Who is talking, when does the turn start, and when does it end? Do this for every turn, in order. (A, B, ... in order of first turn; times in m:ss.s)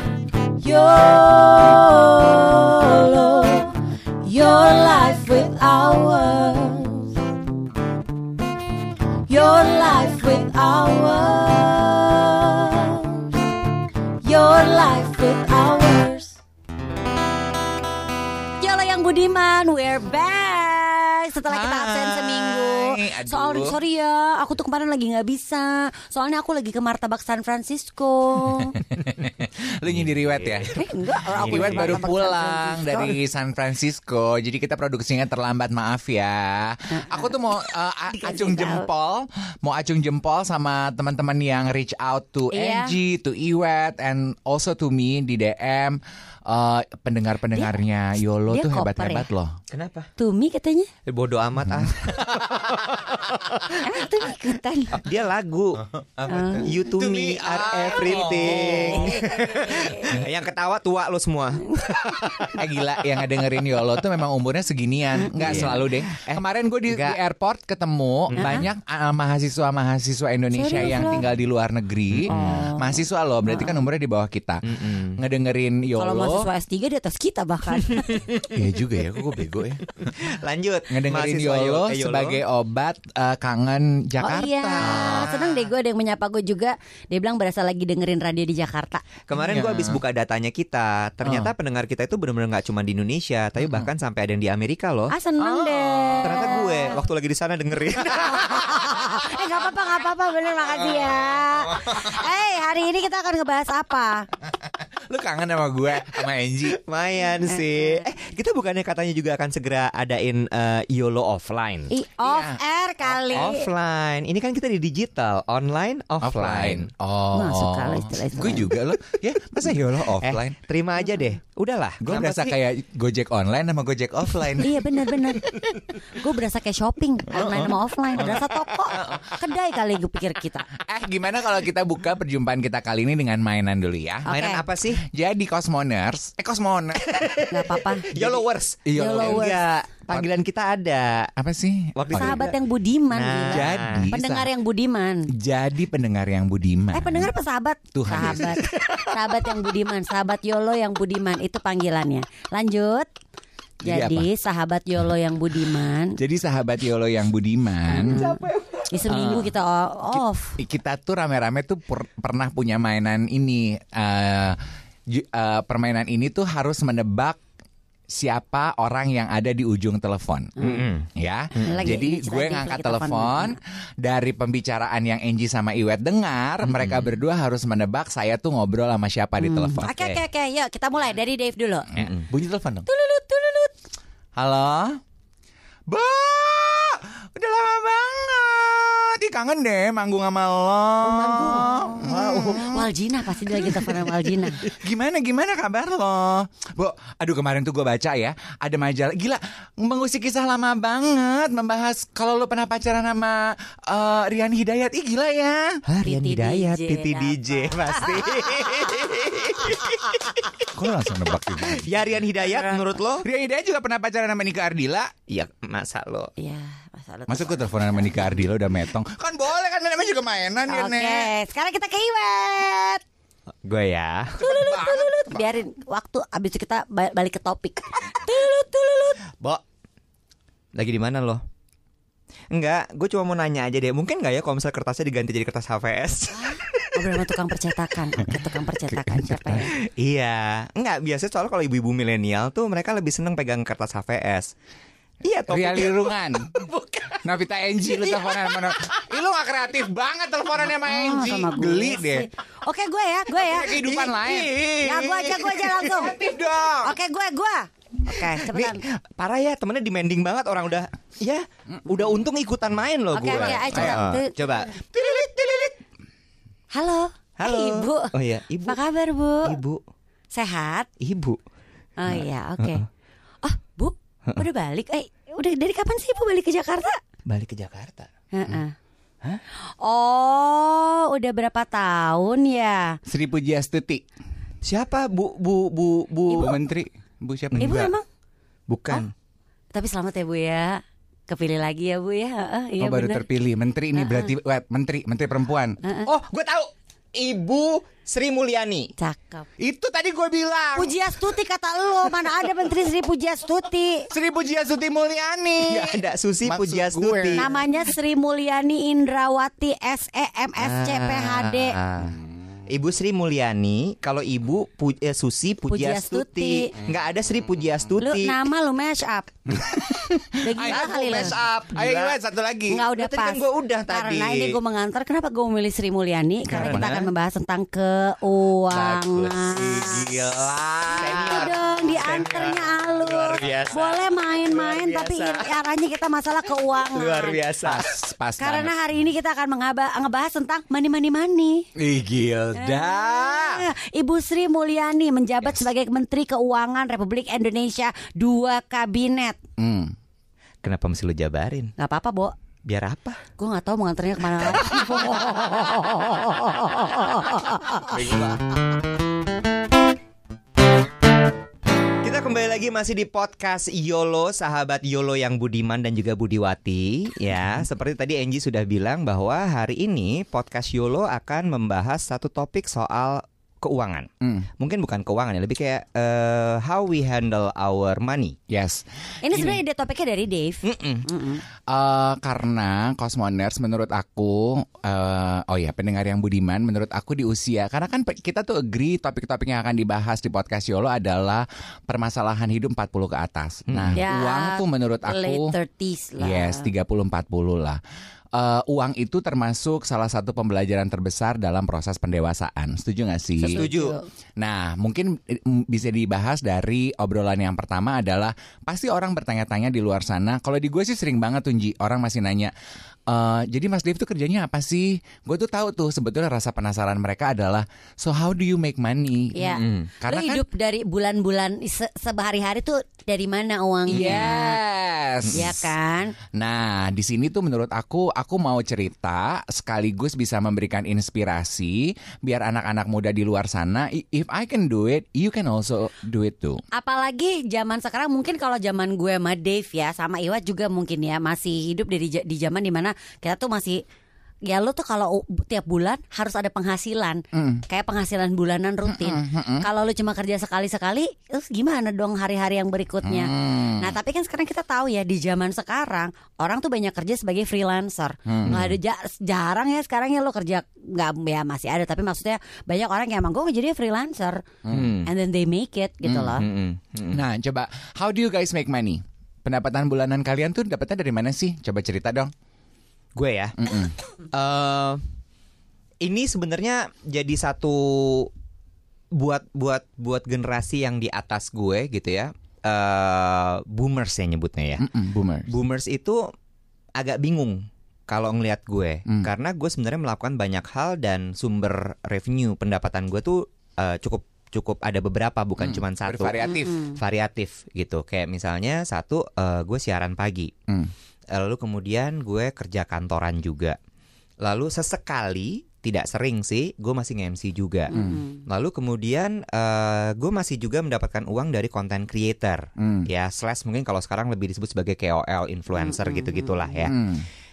0:00.6-0:07.1 A
0:09.3-0:13.3 A
0:14.2-0:16.4 A
0:18.6-0:28.8 A
0:21.5-0:23.8 B
0:28.5-0:30.8 B
0:29.8-0:30.8 C
0:30.7-0:33.2 A
0:31.4-0:49.6 B
0:31.4-0:32.0 C
0:36.9-0:37.3 A
0:38.1-0:38.9 A
0:42.5-0:43.0 A
0:48.5-0:49.3 A
0:49.7-0:50.1 C
0:50.2-0:50.9 A
0:51.0-0:53.8 C
0:51.6-0:53.7 B
0:53.8-0:55.0 A
0:55.0-0:55.8 C
0:55.9-1:00.2 B
0:56.3-0:56.7 A
0:56.6-1:02.6 C
0:58.8-1:00.1 A
1:02.2-1:16.4 B
1:05.2-1:05.8 A
1:05.4-1:07.2 C
1:08.3-1:08.7 C
1:08.4-1:08.6 A
1:10.5-1:11.2 A
1:12.1-1:12.6 C
1:12.3-1:13.8 A
1:14.7-1:15.2 C
1:15.9-1:18.3 A
1:17.9-1:18.6 C
1:18.5-1:20.1 B
1:20.0-1:22.4 C
1:20.9-1:25.7 B
1:24.2-1:29.1 A
1:24.8-1:25.3 C
1:29.3-1:35.1 C
1:29.4-1:30.0 B
1:31.2-1:31.5 B
1:33.6-1:33.9 B
1:35.1-1:37.0 A
1:35.4-1:36.5 B
1:36.2-1:38.8 C
1:38.2-1:44.2 A
1:38.6-1:39.2 B
1:40.7-1:42.2 B
1:44.6-1:46.8 B
1:46.7-1:51.9 C
1:47.5-1:48.1 A
1:51.9-1:53.7 A
1:52.2-1:53.5 B
1:53.3-1:56.9 C
1:56.2-2:00.6 B
1:57.3-1:58.7 A
1:59.9-2:02.5 C
2:02.0-2:05.8 B
2:04.6-2:05.5 A
2:06.1-2:10.7 A
2:07.3-2:09.5 B
2:10.7-2:14.3 B
2:14.2-2:14.6 A
2:14.3-2:15.0 C
2:15.0-2:17.4 B
2:17.0-2:21.3 C
2:17.5-2:18.1 A
2:18.1-2:19.5 B
2:19.0-2:19.6 A
2:21.4-2:22.5 B
2:22.0-2:22.6 C
2:22.1-2:25.3 A
2:23.1-2:24.1 C
2:23.5-2:24.5 B
2:25.3-2:27.3 B
2:26.9-2:33.1 A
2:27.9-2:28.8 B
2:33.8-2:34.3 B
2:33.8-2:36.2 A
2:36.2-2:38.3 B
2:37.9-2:40.6 A
2:37.9-2:39.2 C
2:39.1-2:39.5 B
2:40.1-2:47.4 B
2:48.1-2:59.9 B
2:50.6-2:50.9 A
2:50.6-2:52.0 C
2:51.6-2:53.6 A
2:56.6-2:57.2 C
2:59.4-3:01.9 A
2:59.9-3:00.2 C
3:02.0-3:02.3 C
3:02.0-3:02.9 B
3:02.9-3:03.7 A
3:04.4-3:05.0 B
3:05.9-3:12.9 B
3:11.0-3:14.7 A
3:12.0-3:12.7 C
3:13.4-3:25.8 B
3:25.9-3:30.7 C
3:26.0-3:29.1 A
3:27.8-3:28.7 B
3:30.6-3:31.9 B
3:31.3-3:33.2 C
3:32.4-3:32.9 A
3:33.2-3:35.1 B
3:35.3-3:36.3 C
3:36.4-3:38.3 A
3:37.3-3:41.3 B
3:40.7-3:43.0 A
3:43.6-3:44.4 C
3:44.4-3:49.2 A
3:44.4-3:45.4 B
3:50.7-3:51.4 C
3:52.5-3:57.0 C
3:56.3-3:59.7 A
3:58.2-3:59.7 B
3:59.7-4:04.5 C
4:05.2-4:07.1 C
4:05.5-4:12.3 B
4:08.1-4:08.7 C
4:10.8-4:13.8 A
4:13.3-4:17.0 B
4:13.8-4:14.7 C
4:14.8-4:16.2 A
4:16.8-4:18.8 A
4:18.3-4:24.8 C
4:23.1-4:24.3 A
4:23.1-4:24.0 B
4:24.7-4:25.7 B
4:26.7-4:28.1 A
4:27.4-4:28.8 C
4:28.7-4:29.6 A
4:29.4-4:29.8 C
4:30.3-4:30.9 A
4:31.0-4:31.4 C
4:32.0-4:32.8 A
4:32.1-4:32.8 C
4:33.4-4:37.0 A
4:37.2-4:38.1 C
4:38.3-4:38.8 A
4:39.8-4:43.0 A
4:43.0-4:44.0 B
4:44.6-4:46.6 C
4:46.3-4:47.9 B
4:47.6-4:48.0 A
4:48.7-4:49.1 C
4:49.7-4:53.2 A
4:52.8-4:55.8 B
4:53.9-4:54.3 A
4:55.8-4:56.1 A
4:56.1-4:58.9 C
4:59.0-4:59.4 A
4:59.6-5:01.0 B
5:00.7-5:04.1 A
5:04.1-5:07.5 B
5:05.7-5:07.5 C
5:07.3-5:11.8 A
5:10.6-5:18.4 C
5:15.7-5:16.7 A
5:18.0-5:19.6 A
5:19.5-5:22.8 B
5:20.4-5:21.4 A
5:20.6-5:22.2 C
5:22.7-5:30.0 A
5:22.9-5:24.6 C
5:26.5-5:27.1 B
5:26.5-5:26.9 C
5:28.7-5:31.5 B
5:29.5-5:35.6 C
5:30.9-5:37.4 A
5:36.9-5:37.9 C
5:37.6-5:38.7 B
5:38.4-5:41.6 A
5:41.8-5:43.6 B
5:42.6-5:49.4 A
5:49.6-5:49.9 B
5:50.6-5:51.7 C
5:51.8-5:52.3 A
5:52.6-5:53.2 C
5:53.4-5:58.1 A
5:54.5-5:55.3 C
5:57.9-5:58.4 C
6:02.0-6:18.4 C
6:14.2-6:14.5 B
6:18.5-6:19.6 B
6:19.2-6:21.4 A
6:20.6-6:21.1 C
6:21.7-6:35.5 B
6:33.7-6:34.0 C
6:34.0-6:36.7 A
6:36.2-6:37.8 B
6:38.3-6:43.7 B
6:43.4-6:44.0 A
6:43.5-6:44.0 C
6:44.4-6:52.5 B
6:53.1-7:00.4 B
6:59.3-7:04.6 A
6:59.4-6:59.9 C
7:03.9-7:05.6 B
7:03.9-7:04.3 C
7:05.3-7:06.1 A
7:06.3-7:16.6 B
7:16.7-7:23.8 A
7:24.4-7:44.4 A
7:27.3-7:27.6 B
7:28.9-7:29.6 B
7:33.0-7:34.0 B
7:38.3-7:38.8 B
7:44.6-7:45.0 B
7:44.7-7:45.1 C
7:45.0-7:46.4 A
7:46.0-7:46.4 B
7:46.4-7:47.2 C
7:47.1-7:52.3 B
7:53.1-7:55.0 C
7:53.6-7:53.9 B
7:56.0-7:58.3 C
7:59.1-8:04.8 C
8:04.8-8:05.5 B
8:05.5-8:06.3 C
8:07.0-8:16.4 C
8:15.6-8:16.9 B
8:16.4-8:17.0 A
8:16.9-8:20.5 C
8:21.3-8:23.8 C
8:24.4-8:36.9 C
8:27.9-8:28.4 A
8:27.9-8:28.2 B
8:32.8-8:33.1 B
8:35.7-8:36.9 A
8:36.9-8:37.3 B